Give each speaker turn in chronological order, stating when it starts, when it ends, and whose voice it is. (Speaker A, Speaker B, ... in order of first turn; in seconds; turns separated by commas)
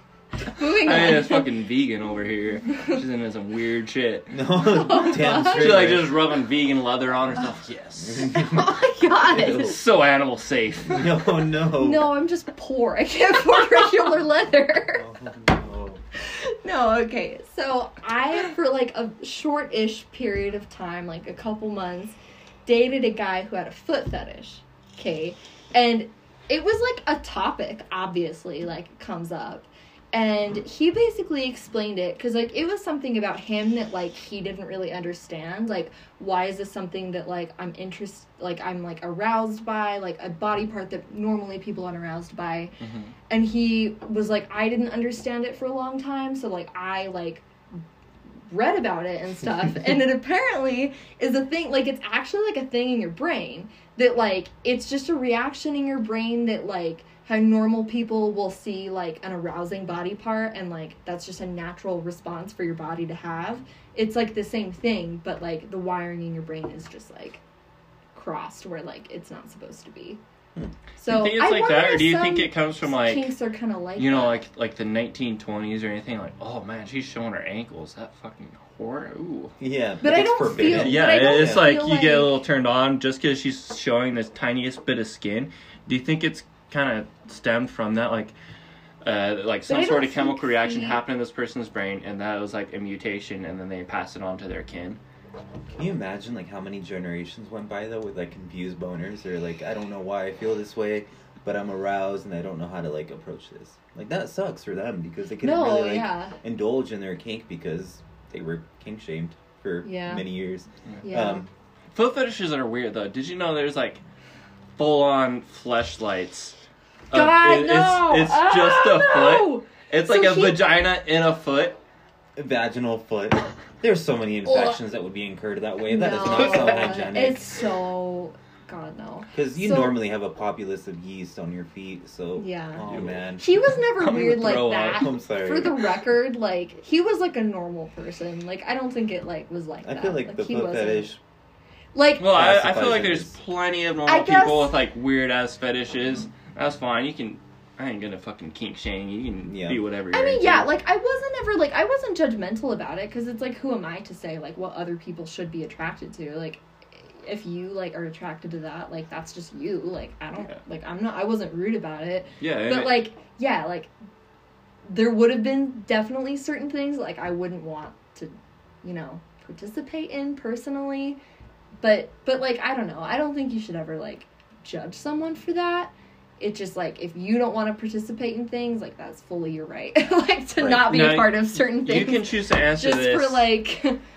Speaker A: 0.4-1.5, Speaker B: 0.6-4.3, Speaker C: 4.3-6.2, Speaker A: 4.5-5.8, Speaker B: 5.1-8.4, Speaker C: 8.0-8.7, Speaker A: 8.3-9.8, Speaker C: 9.3-9.8, Speaker B: 9.3-11.1, Speaker C: 10.9-12.1, Speaker A: 11.8-15.1, Speaker C: 14.9-16.0, Speaker A: 16.2-42.7, Speaker B: 42.8-43.1, Speaker A: 43.3-47.5, Speaker A: 48.5-67.4, Speaker A: 68.1-70.2, Speaker A: 71.0-74.4, Speaker B: 71.1-73.3, Speaker B: 74.0-79.5, Speaker C: 79.6-81.7, Speaker A: 80.0-82.4, Speaker B: 80.6-88.3, Speaker B: 89.0-95.0, Speaker A: 89.7-91.0, Speaker C: 95.7-111.5, Speaker A: 105.4-106.3, Speaker A: 109.8-110.3, Speaker A: 111.0-111.5, Speaker B: 111.9-114.0, Speaker B: 114.8-116.6, Speaker B: 117.1-121.8, Speaker A: 117.1-120.7, Speaker C: 122.3-127.4, Speaker A: 124.5-124.8, Speaker A: 125.9-130.0, Speaker B: 126.3-126.9, Speaker C: 129.3-133.6, Speaker A: 132.4-141.1, Speaker B: 132.9-133.2, Speaker B: 133.8-135.1, Speaker C: 134.9-135.8, Speaker C: 139.8-141.2, Speaker A: 141.9-142.3, Speaker B: 142.2-150.7, Speaker C: 142.3-143.3, Speaker A: 144.1-144.8, Speaker C: 149.4-149.8, Speaker A: 150.1-163.9, Speaker B: 162.4-163.1, Speaker A: 164.8-171.2, Speaker A: 171.8-184.0, Speaker C: 180.6-180.8, Speaker B: 180.7-183.6